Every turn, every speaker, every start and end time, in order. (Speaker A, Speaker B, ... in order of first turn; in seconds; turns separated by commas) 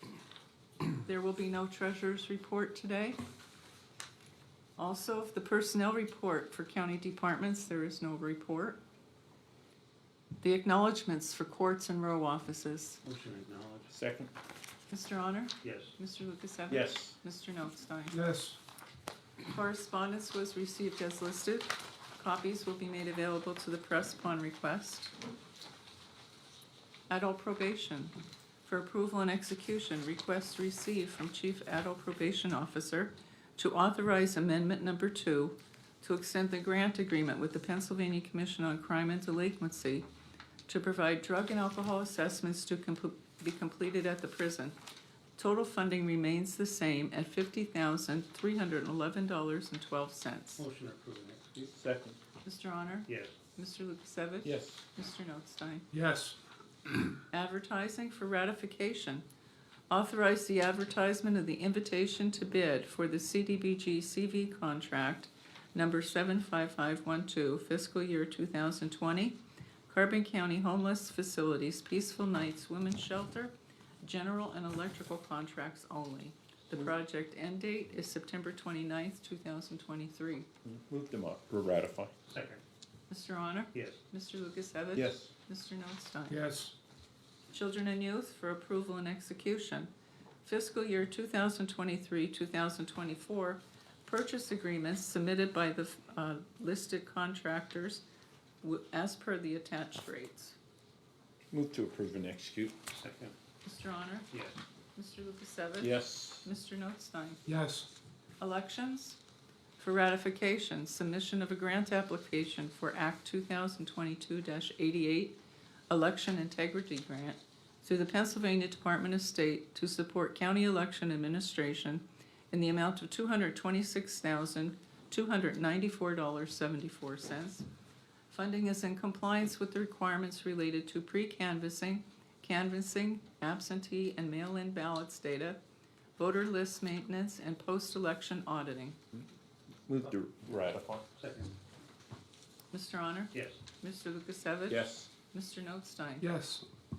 Speaker A: 1.0-3.2, Speaker A: 4.8-8.8, Speaker A: 10.4-13.0, Speaker B: 13.0-13.9, Speaker C: 13.9-14.3, Speaker A: 14.9-18.2, Speaker B: 15.6-15.9, Speaker C: 16.7-17.1, Speaker D: 18.1-18.6, Speaker A: 19.4-25.1, Speaker A: 27.1-28.1, Speaker A: 28.6-40.1, Speaker A: 40.7-44.8, Speaker A: 45.4-50.6, Speaker B: 50.6-51.7, Speaker C: 51.7-52.2, Speaker A: 52.4-55.9, Speaker B: 53.1-53.3, Speaker C: 54.4-54.8, Speaker D: 55.9-56.4, Speaker A: 57.3-59.2, Speaker A: 59.9-73.5, Speaker A: 74.0-80.5, Speaker C: 80.6-82.1, Speaker B: 82.3-82.6, Speaker A: 83.1-86.4, Speaker B: 83.7-84.0, Speaker C: 84.9-85.3, Speaker D: 86.3-86.7, Speaker A: 87.5-89.9, Speaker A: 90.4-98.0, Speaker A: 98.6-100.5, Speaker C: 101.5-102.8, Speaker B: 102.9-103.3, Speaker A: 103.6-104.4, Speaker A: 104.9-107.4, Speaker C: 105.8-106.5, Speaker D: 107.5-107.9, Speaker A: 108.4-109.2, Speaker A: 109.8-115.4, Speaker A: 115.9-127.7, Speaker A: 128.3-135.6, Speaker A: 136.2-139.0, Speaker C: 139.9-141.0, Speaker B: 141.2-141.5, Speaker A: 142.7-146.3, Speaker B: 143.3-143.6, Speaker C: 144.7-145.1, Speaker D: 146.2-146.6